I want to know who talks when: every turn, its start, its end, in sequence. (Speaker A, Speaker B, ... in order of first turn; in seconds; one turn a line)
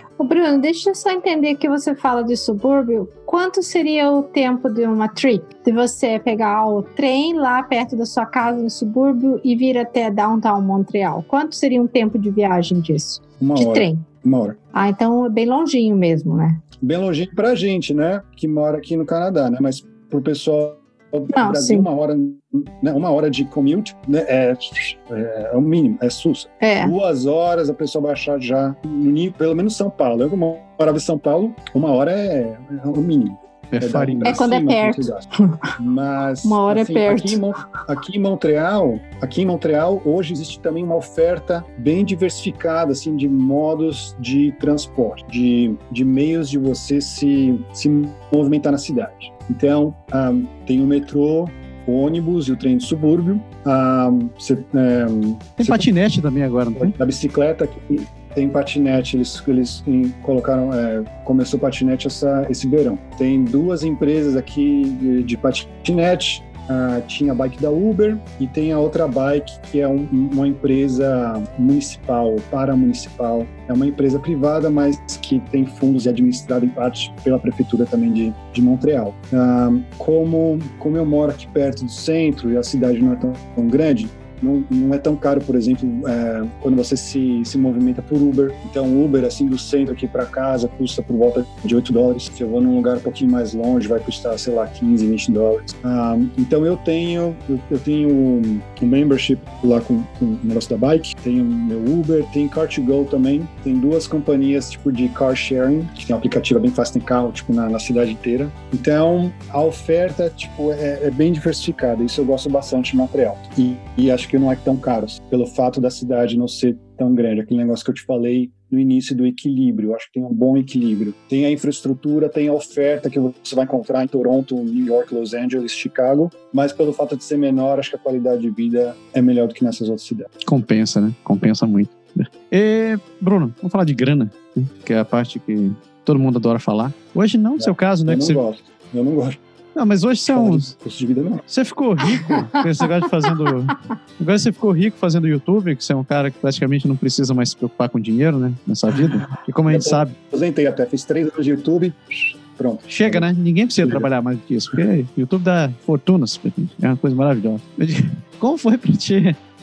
Speaker A: 0.2-14.1
Speaker B: 13.4-14.6
Speaker A: 14.7-16.6
Speaker B: 16.8-55.9
Speaker A: 21.3-21.9
Speaker A: 26.6-26.9
Speaker C: 33.7-34.4
Speaker A: 34.2-35.7
Speaker A: 36.4-37.4
Speaker C: 55.6-57.0
Speaker B: 56.8-130.3
Speaker C: 130.4-138.4
Speaker B: 137.6-139.4
Speaker C: 139.8-140.7
Speaker B: 140.3-141.4
Speaker C: 141.5-150.1
Speaker A: 142.1-142.8
Speaker B: 149.7-153.3
Speaker C: 152.9-159.4
Speaker B: 153.8-154.1